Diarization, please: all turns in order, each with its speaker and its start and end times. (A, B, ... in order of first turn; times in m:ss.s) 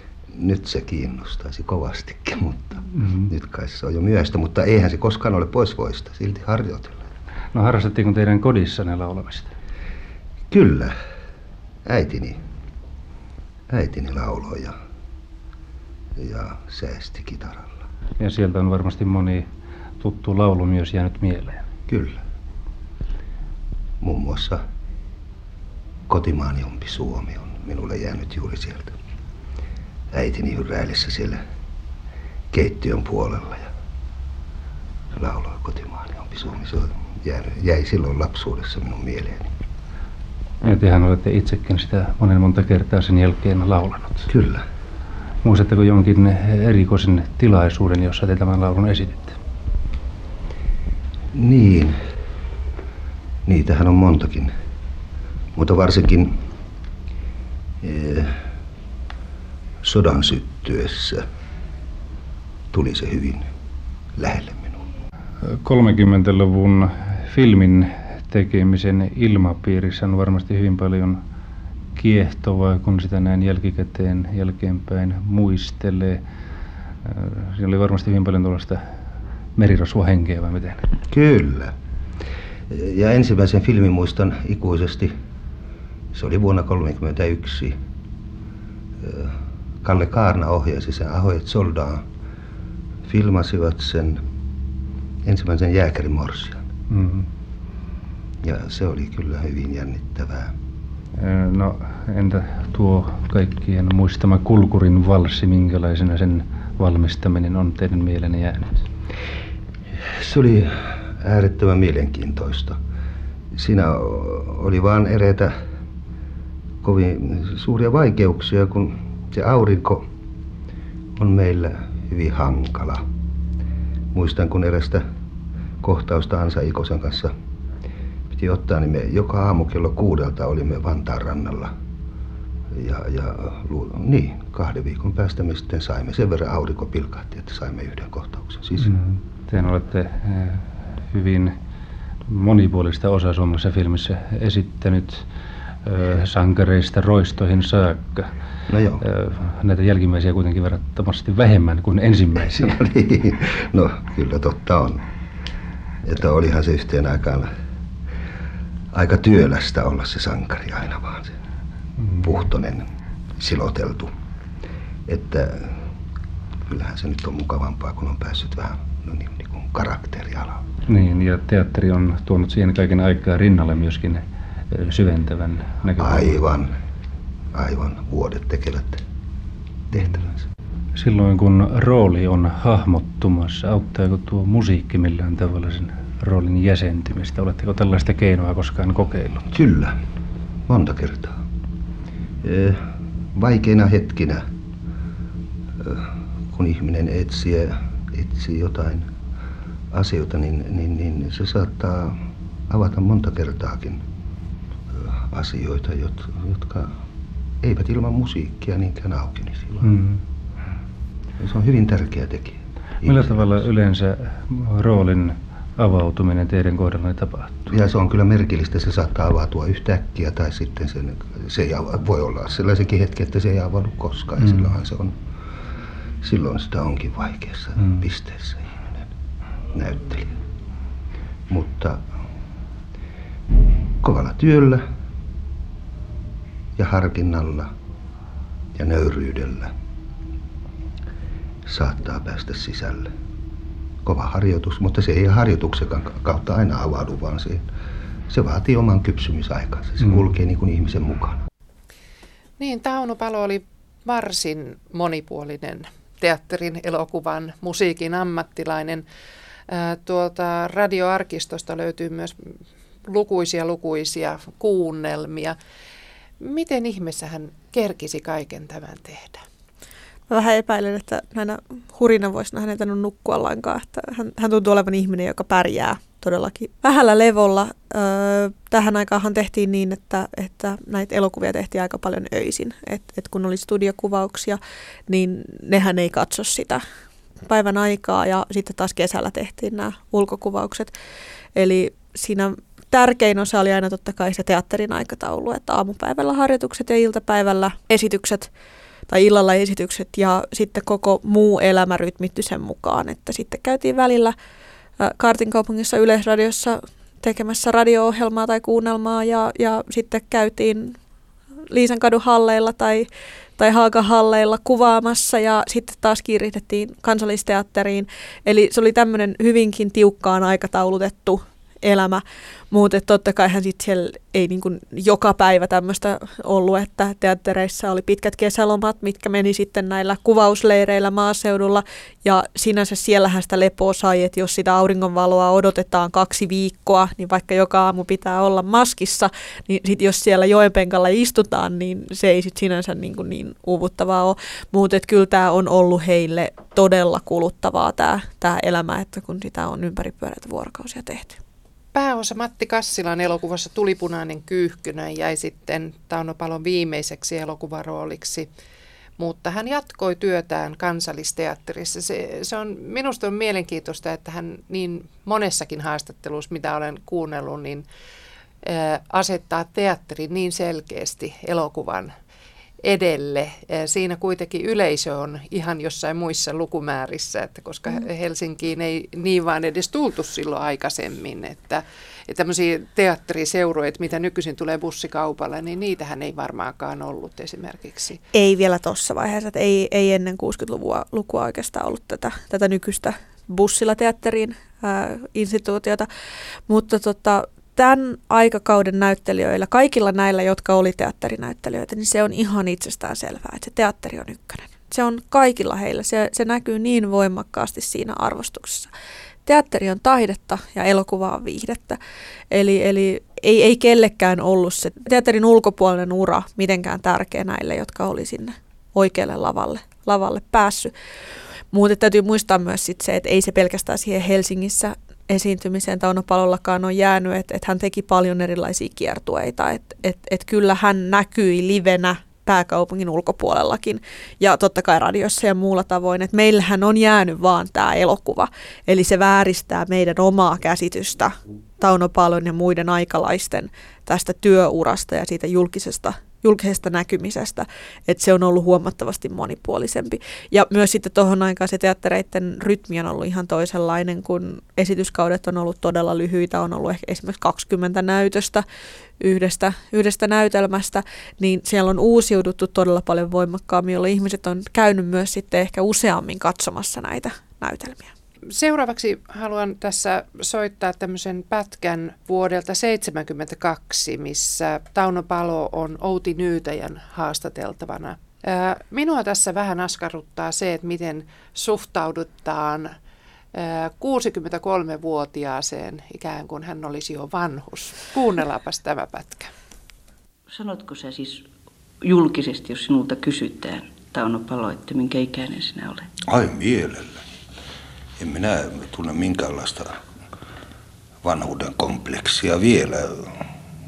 0:00.3-0:07.0 A
0:03.0-0:03.3 B
0:07.5-0:09.5 B
0:10.5-0:11.0 A
0:11.8-0:12.4 A
0:13.7-0:14.8 A
0:16.2-0:17.7 A
0:18.2-0:19.5 B
0:20.0-0:21.6 B
0:21.9-0:22.2 A
0:24.0-0:24.6 A
0:26.1-0:29.0 A
0:30.1-0:31.4 A
0:32.5-0:33.7 A
0:35.1-0:39.5 A
0:40.6-0:44.3 B
0:44.3-0:44.6 A
0:45.4-0:49.4 B
0:51.3-0:52.0 A
0:53.4-0:54.5 A
0:55.5-0:56.4 A
0:57.8-0:58.4 A
0:59.8-1:01.2 A
1:02.7-1:03.5 A
1:04.2-1:04.8 A
1:05.4-1:11.2 B
1:12.0-1:16.2 B
1:17.0-1:18.8 B
1:19.6-1:20.9 B
1:21.1-1:21.7 A
1:22.7-1:25.1 A
1:26.1-1:27.7 A
1:29.0-1:32.0 A
1:33.0-1:34.2 A
1:35.2-1:36.6 A
1:36.9-1:37.3 B
1:38.4-1:40.5 A
1:41.2-1:48.9 B
1:50.0-1:52.8 A
1:53.5-1:55.6 A
1:56.8-2:00.0 A
2:01.2-2:03.0 A
2:04.1-2:05.0 A
2:05.8-2:07.3 A
2:08.3-2:11.7 A
2:12.7-2:18.9 A
2:18.8-2:21.6 B
2:22.3-2:25.3 B
2:25.8-2:28.3 B
2:28.7-2:29.0 A
2:29.0-2:32.8 B
2:32.4-2:35.0 A
2:36.0-2:37.5 A
2:38.9-2:41.3 A
2:42.2-2:42.8 A
2:43.4-2:44.1 A
2:45.1-2:45.9 A
2:46.7-2:50.6 A
2:50.9-2:56.4 B
2:56.0-2:56.7 A
2:57.5-2:59.0 A
2:59.9-3:00.4 A
3:00.9-3:09.4 B
3:09.5-3:10.0 A
3:10.7-3:11.4 A
3:12.4-3:14.5 A
3:15.8-3:19.1 A
3:19.9-3:24.0 A
3:24.9-3:27.0 A
3:27.6-3:29.9 A
3:29.8-3:30.2 B
3:31.4-3:33.6 A
3:33.0-3:37.7 B
3:37.7-3:45.2 A
3:46.2-3:49.1 A
3:49.7-3:50.4 A
3:51.5-3:52.0 A
3:54.0-3:54.8 A
3:56.8-3:57.7 A
3:58.7-3:59.7 A
4:01.6-4:03.1 A
4:04.0-4:07.7 A
4:08.3-4:11.4 A
4:12.6-4:19.0 C
4:19.7-4:25.6 C
4:26.4-4:29.4 C
4:30.3-4:46.8 D
4:47.4-4:50.9 D
4:51.5-4:58.5 D
4:59.1-5:04.3 D
5:05.0-5:11.0 D
5:11.7-5:51.4 D
5:51.9-5:58.5 C
5:59.2-6:07.8 C
6:08.6-6:12.1 C
6:12.8-6:28.2 C
6:28.3-6:36.1 D
6:36.7-6:48.9 D
6:49.4-6:52.0 D
6:52.5-7:00.9 D
7:01.7-7:38.6 D
7:39.2-7:48.1 D
7:48.5-8:02.9 C
8:03.5-8:09.5 C
8:10.5-8:11.4 E
8:12.0-8:16.1 E
8:16.3-8:17.2 A
8:18.2-8:20.0 A
8:21.2-8:23.3 A